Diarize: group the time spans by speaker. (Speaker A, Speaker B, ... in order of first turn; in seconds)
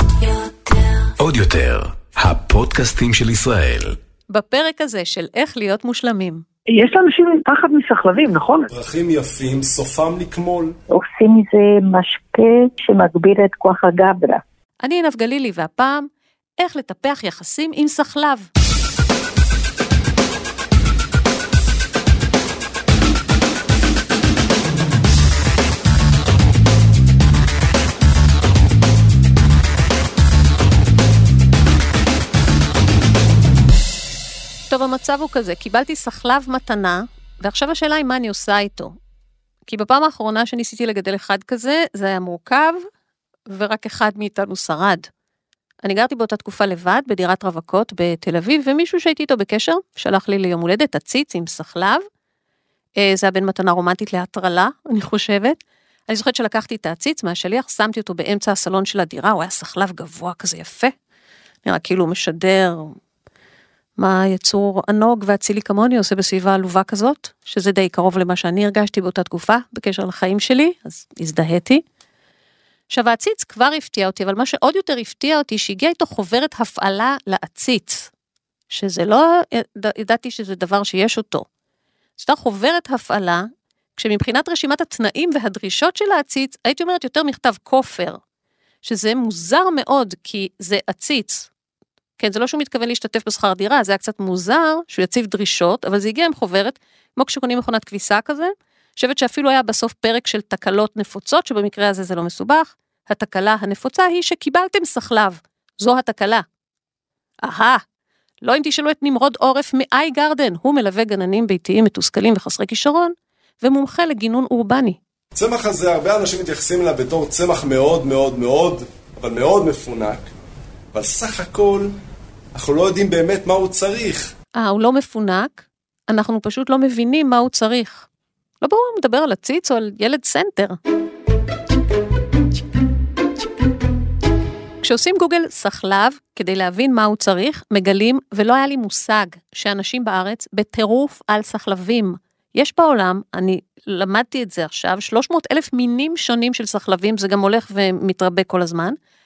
Speaker A: 1.2-4.0
Speaker B: 4.3-6.4, 14.8-16.1, 16.6-18.5, 34.7-38.9, 39.6-42.8, 43.5-45.1, 45.8-52.0, 53.0-55.6, 56.1-60.9, 61.6-63.0, 64.0-71.8, 72.9-78.1, 78.7-81.5, 82.2-88.2, 88.8-91.5, 92.2-106.4, 107.4-107.8, 108.4-115.0, 124.6-128.1, 128.6-130.8, 134.8-148.9
Speaker C: 6.7-8.7
Speaker D: 8.9-10.7, 115.3-120.2, 120.9-121.9, 122.5-124.3
Speaker E: 10.9-14.4